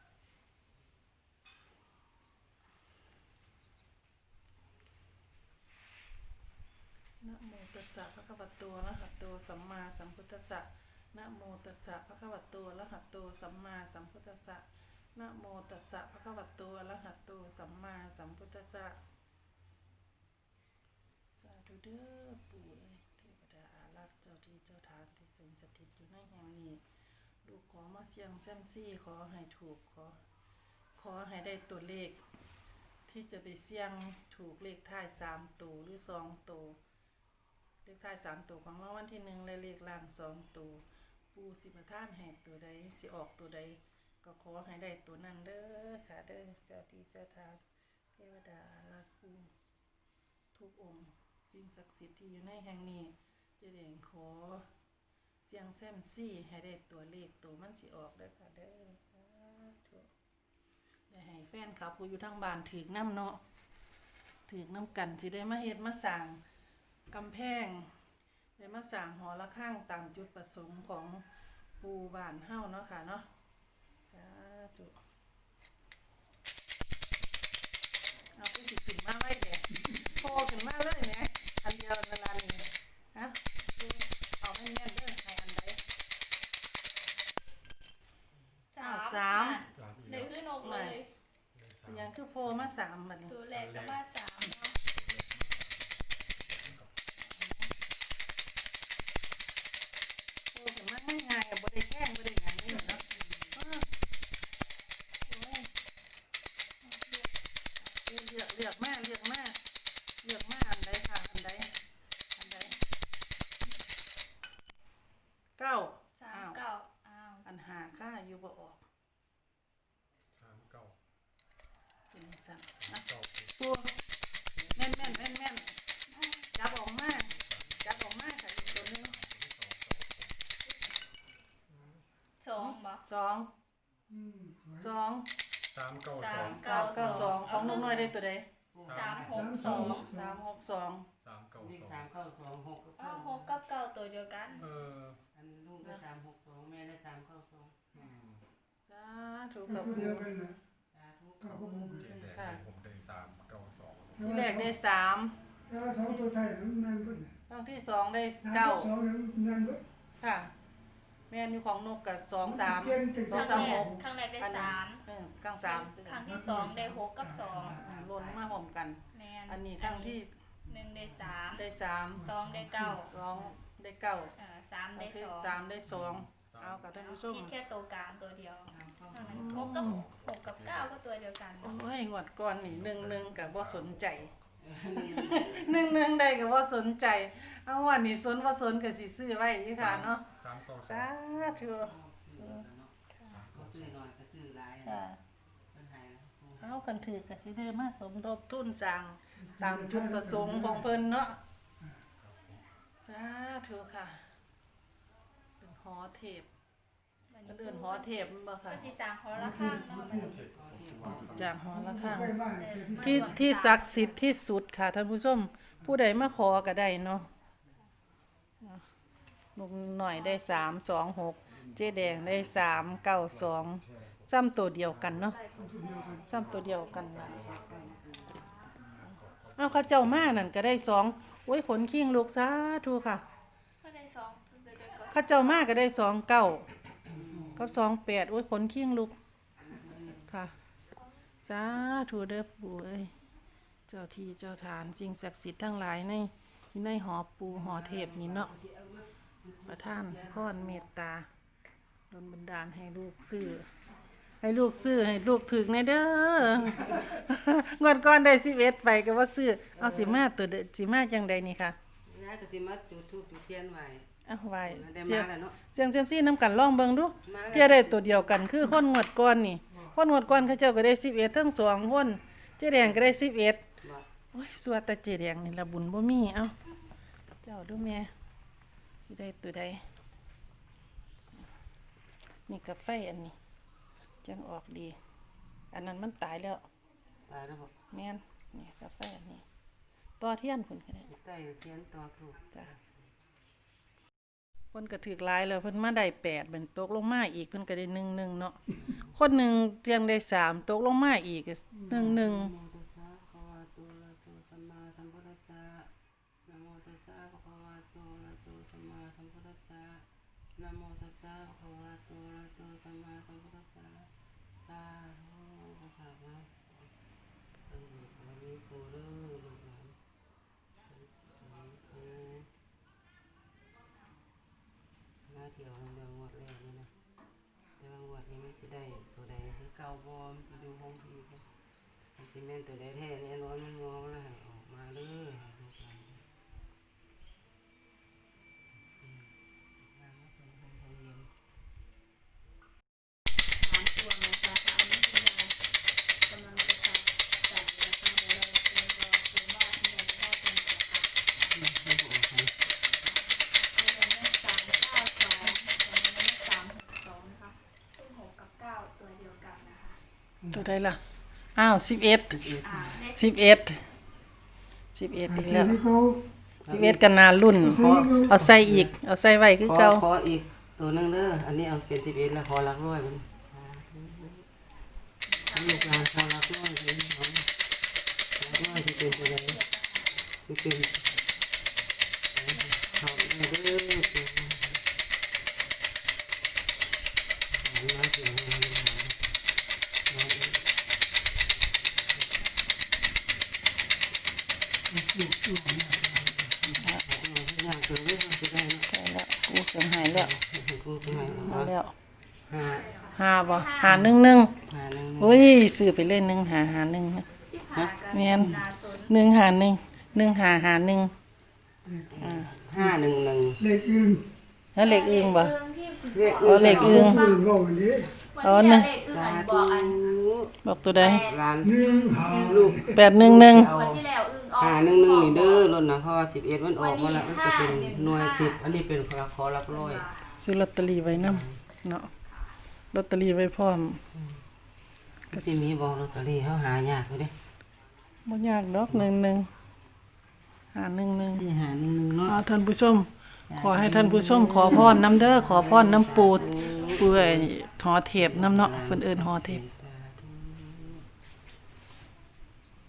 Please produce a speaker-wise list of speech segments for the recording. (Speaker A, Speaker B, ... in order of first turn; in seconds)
Speaker A: 7.2-19.0, 21.4-26.8, 27.4-30.2, 30.9-32.2, 33.1-36.8, 37.8-47.6, 48.1-49.5, 50.5-54.7, 55.4-60.1, 61.1-63.4, 64.5-66.4, 67.1-67.9, 68.6-71.2, 71.8-73.3, 74.1-74.9, 78.3-85.8, 88.8-89.7, 90.6-91.0, 91.9-93.3, 97.3-97.7, 100.5-103.0, 103.5-103.8, 105.3-105.7, 107.8-109.6, 110.2-111.7, 112.4-112.7, 115.6-116.6, 117.4-118.8, 122.1-123.0, 123.6-123.9, 124.7-125.7, 126.5-129.2, 132.6-133.5, 134.8-135.3, 136.6-138.5, 139.6-141.1, 148.8-150.3, 152.2-152.6, 154.2-155.3, 157.5-158.9, 160.2-160.5, 161.3-166.0, 167.7-170.3, 171.5-172.3, 173.0-174.3, 174.9-177.5, 179.3-180.1, 181.6-184.3, 184.9-190.3, 190.8-192.6, 194.8-195.2, 196.6-201.4, 203.0-204.2, 205.6-206.5, 207.4-208.9, 211.0-212.4, 212.9-217.3, 219.6-225.4, 226.2-227.5, 229.6-233.2, 235.1-236.7, 237.5-239.1, 240.3-240.5, 241.4-243.1, 243.9-248.5, 249.7-251.3, 252.1-253.7, 254.4-261.8, 264.2-273.7, 274.3-276.5, 277.4-278.1, 279.1-279.8, 282.5-283.3, 284.2-285.0, 285.7-286.6, 287.9-289.4, 290.2-291.1, 294.7-298.6, 299.1-302.5, 360.5-361.0, 361.6-363.8, 364.9-365.8, 366.7-370.1, 398.9-400.3, 401.2-401.9, 403.1-404.5, 405.2-407.3, 408.1-411.1, 412.2-412.5, 414.7-415.5, 416.4-417.3, 418.4-418.9, 420.6-421.2, 422.9-423.8, 430.4-432.1, 432.9-434.0, 435.3-435.6, 438.2-439.5, 440.7-441.5, 442.2-449.6
Speaker B: 88.7-91.1, 93.3-94.8, 106.8-107.2, 116.2-117.4, 126.2-126.5, 132.4-133.0, 136.1-138.1, 138.8-140.1, 143.0-144.7, 163.3-165.0, 165.6-167.8, 169.1-171.6, 172.2-173.1, 174.3-175.6, 176.9-181.8, 207.3-208.1, 208.7-210.4, 212.6-214.2, 225.1-228.7, 233.8-235.6, 343.6-345.5, 346.3-351.1, 353.0-360.0, 362.6-363.3, 375.3-376.3, 378.4-380.2, 382.6-383.7, 402.6-404.0, 407.5-409.1, 414.8-417.5, 418.3-420.2, 420.9-422.2, 423.5-425.7, 426.8-428.7, 429.7-430.3, 445.9-447.1
Speaker C: 89.7-90.3, 91.5-92.1, 93.5-94.0, 94.9-96.9, 120.4-121.0, 122.8-123.5, 128.7-130.3, 131.7-132.0, 135.7-136.6, 141.2-142.1, 144.6-145.2, 148.0-148.4, 152.0-154.2, 176.3-176.8, 179.7-180.9, 182.7-184.5, 189.8-191.2, 193.3-193.9, 210.3-211.5, 221.8-222.6, 223.3-224.2, 228.8-230.4
Speaker D: 134.1-134.8, 139.3-140.3, 149.7-150.6, 151.4-152.1, 154.2-154.7, 155.7-157.3, 158.4-159.8, 162.4-163.9, 166.4-167.7, 199.6-200.7, 209.3-210.3, 211.7-213.2, 225.6-226.2, 365.5-366.2, 367.7-368.3, 395.3-395.7, 413.6-414.2, 416.9-418.1, 421.7-422.9
Speaker E: 136.3-138.1, 138.7-139.5, 141.6-143.6, 145.3-148.0, 150.9-152.4, 167.8-168.5, 172.5-173.5, 175.9-176.2, 178.7-179.5, 184.6-185.8, 191.5-192.9, 193.5-195.1, 195.7-196.8, 210.4-211.6, 227.1-228.5, 237.1-237.7, 239.6-240.2, 247.5-250.8, 259.7-260.3, 262.1-264.1, 264.6-265.6, 267.2-268.5, 272.8-273.1, 287.2-287.7, 291.0-293.0, 301.9-305.9, 306.4-310.0, 310.6-314.1, 314.6-316.9, 317.7-319.9, 320.9-322.5, 325.2-326.9, 327.8-331.4, 332.1-336.2, 339.0-339.3, 339.8-341.3, 351.5-352.6, 362.4-362.8, 366.6-367.1, 367.6-368.9, 369.6-374.4, 375.5-377.5, 378.4-379.6, 380.4-381.1, 382.3-384.8, 387.5-389.2, 390.1-390.6, 395.7-398.9, 400.0-401.7, 402.5-402.9, 403.9-404.1, 404.7-405.5, 412.1-413.6, 416.1-417.1, 419.1-430.1, 431.1-431.6, 434.1-434.4, 435.3-437.3, 441.4-442.4, 443.5-447.5, 448.2-451.0